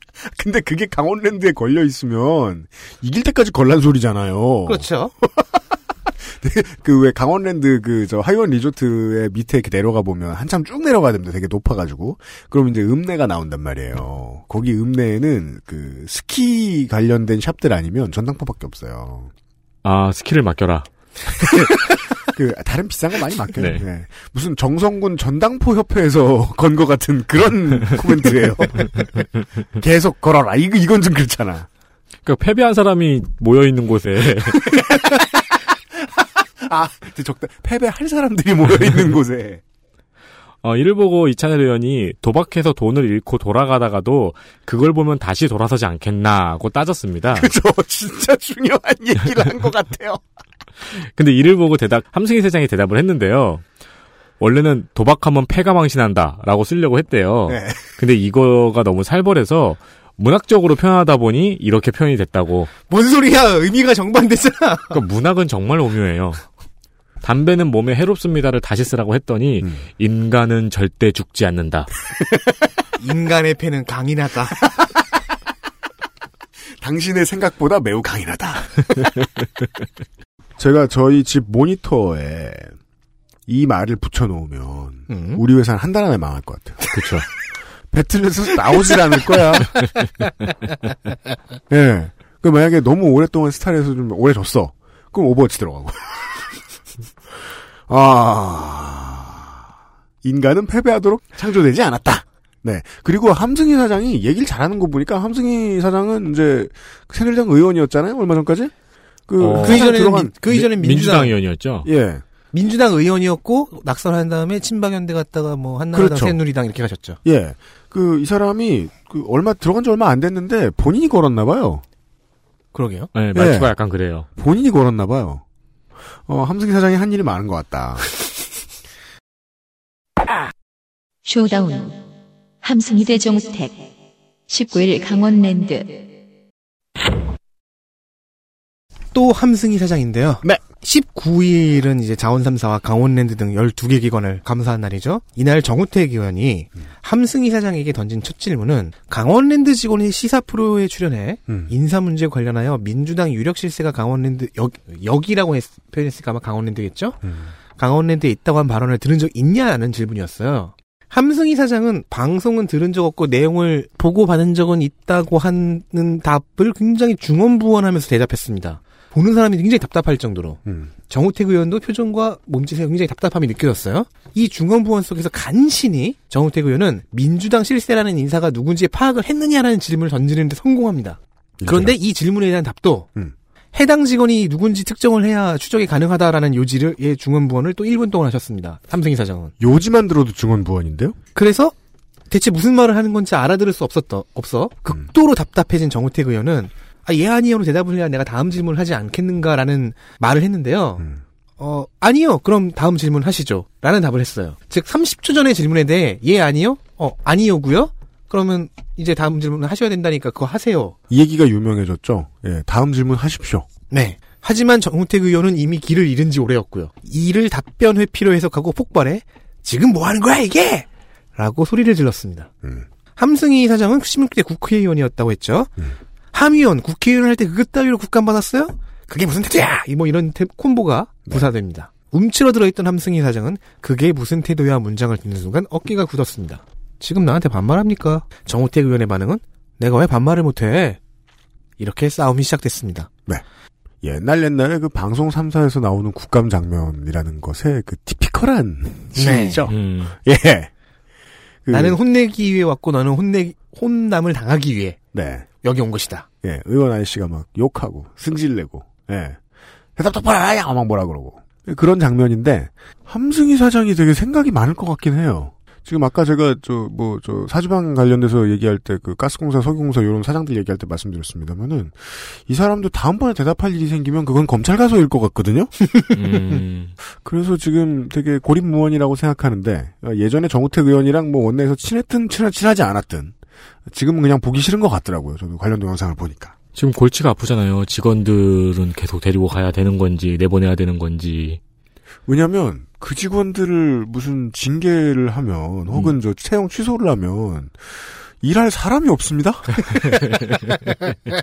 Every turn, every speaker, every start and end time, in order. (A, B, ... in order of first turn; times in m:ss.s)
0:00.3-0:05.4 A
0:04.7-0:05.1 B
0:06.2-0:19.3 A
0:19.8-0:20.9 C
0:22.3-0:31.7 A
0:23.6-0:23.8 C
0:32.2-0:34.8 C
0:34.6-0:39.6 A
0:40.6-0:47.5 C
0:47.3-0:50.2 A
0:50.9-0:53.6 C
0:54.4-1:02.7 C
0:57.5-0:57.8 A
1:02.9-1:05.0 B
1:04.9-1:06.4 C
1:07.2-1:12.0 C
1:13.0-1:14.7 B
1:16.8-1:19.2 A
1:20.6-1:22.7 A
1:23.5-1:26.8 A
1:25.1-1:25.4 B
1:26.9-1:27.3 C
1:27.9-1:29.7 A
1:31.7-1:36.5 A
1:37.9-1:39.6 A
1:40.2-1:48.7 A
1:49.3-1:50.3 A
1:49.4-1:50.0 C
1:49.6-1:51.3 B
1:50.5-1:51.9 C
1:51.8-1:52.2 A
1:52.5-1:57.2 B
1:55.9-1:56.4 A
1:57.2-2:01.8 A
2:02.7-2:03.1 B
2:03.1-2:04.3 C
2:03.3-2:03.7 A
2:04.4-2:05.4 A
2:06.3-2:08.1 A
2:11.3-2:12.0 D
2:12.6-2:13.8 D
2:14.5-2:16.1 D
2:19.1-2:37.2 B
2:37.2-2:37.5 A
2:37.8-3:03.1 B
2:50.6-2:50.9 A
3:01.6-3:02.0 A
3:03.7-3:09.5 B
3:09.6-3:11.2 A
3:11.4-3:11.7 B
3:12.3-3:21.1 B
3:21.6-3:31.0 B
3:31.1-3:33.7 A
3:33.9-3:42.5 B
3:43.2-3:45.8 B
3:46.3-4:01.0 B
4:01.8-4:03.1 B
4:04.0-4:10.7 A
4:09.2-4:09.7 B
4:09.7-4:10.2 C
4:11.6-4:12.0 A
4:11.7-4:15.0 B
4:15.1-4:15.5 A
4:15.6-4:16.3 B
4:16.4-4:19.4 A
4:20.0-4:35.7 A
4:36.1-4:36.9 C
4:37.2-4:43.3 A
4:43.9-4:46.5 A
4:46.8-4:51.6 C
4:52.3-5:00.0 A